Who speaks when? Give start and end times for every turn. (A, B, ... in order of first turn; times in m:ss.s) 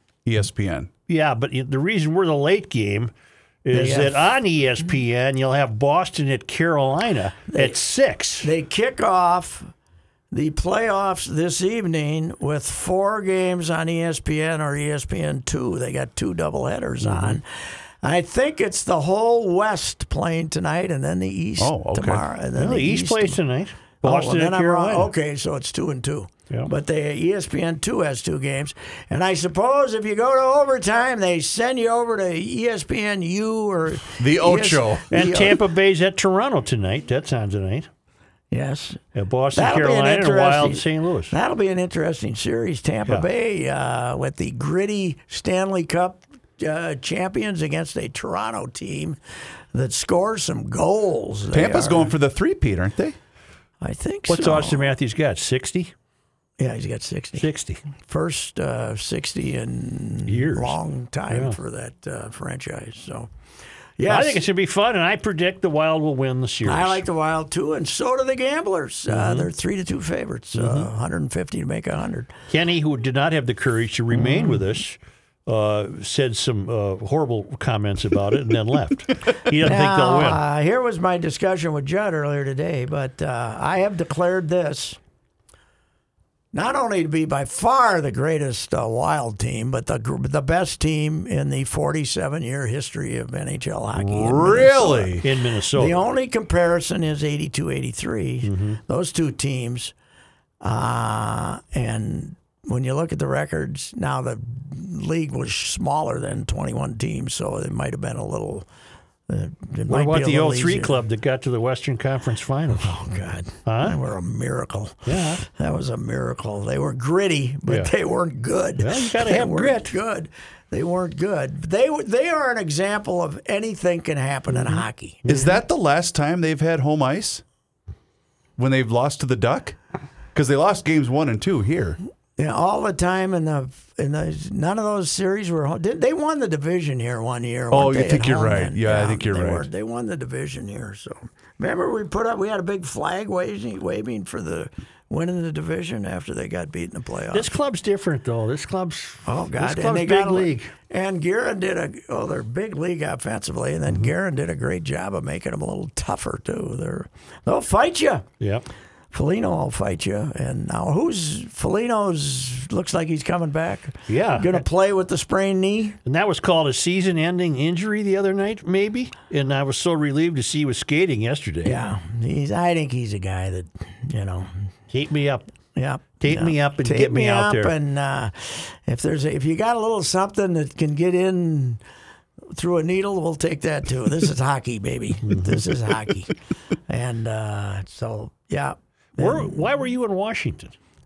0:00.2-0:00.9 A
0:01.1-0:03.1 B
0:03.6-0:08.5 B
0:03.7-0:04.2 C
0:07.5-0:07.8 C
0:08.4-0:09.7 C
0:10.3-0:23.4 C
0:17.0-0:17.4 B
0:21.6-0:22.2 A
0:22.6-0:25.1 B
0:24.0-0:35.6 C
0:34.2-0:35.1 A
0:35.1-0:37.9 B
0:38.5-0:39.0 C
0:39.1-0:41.3 B
0:39.5-0:49.2 C
0:49.7-0:52.1 C
0:51.5-0:53.2 A
0:53.8-0:54.9 C
0:54.3-0:55.9 B
0:56.6-0:57.5 C
0:57.4-0:57.8 B
0:58.0-1:03.3 C
1:00.3-1:00.8 B
1:01.3-1:01.6 B
1:04.0-1:04.4 C
1:04.0-1:07.0 B
1:06.6-1:12.3 C
1:09.1-1:09.5 B
1:10.5-1:10.9 B
1:12.5-1:20.4 B
1:14.1-1:14.6 C
1:19.6-1:25.0 C
1:26.5-1:39.9 C
1:33.9-1:35.2 A
1:35.2-1:36.0 B
1:38.4-1:38.8 B
1:40.6-1:48.6 C
1:49.3-1:51.0 C
1:49.9-1:53.0 B
1:52.8-2:05.2 C
1:53.6-1:54.0 B
1:55.0-1:55.4 B
1:57.7-1:57.9 B
1:58.8-1:59.9 B
2:04.5-2:05.6 B
2:05.3-2:07.4 A
2:08.6-2:09.8 A
2:10.3-2:12.0 A
2:12.4-2:27.5 C
2:17.7-2:19.7 A
2:27.3-2:30.7 B
2:29.2-2:38.2 C
2:38.4-2:38.6 B
2:39.1-2:46.0 C
2:44.1-2:44.6 B
2:46.0-2:51.8 B
2:51.6-2:54.5 C
2:54.9-2:55.5 B
2:55.7-3:01.8 C
2:56.2-2:57.7 B
3:02.5-3:06.3 C
3:05.3-3:05.6 B
3:06.9-3:09.7 C
3:09.2-3:10.7 B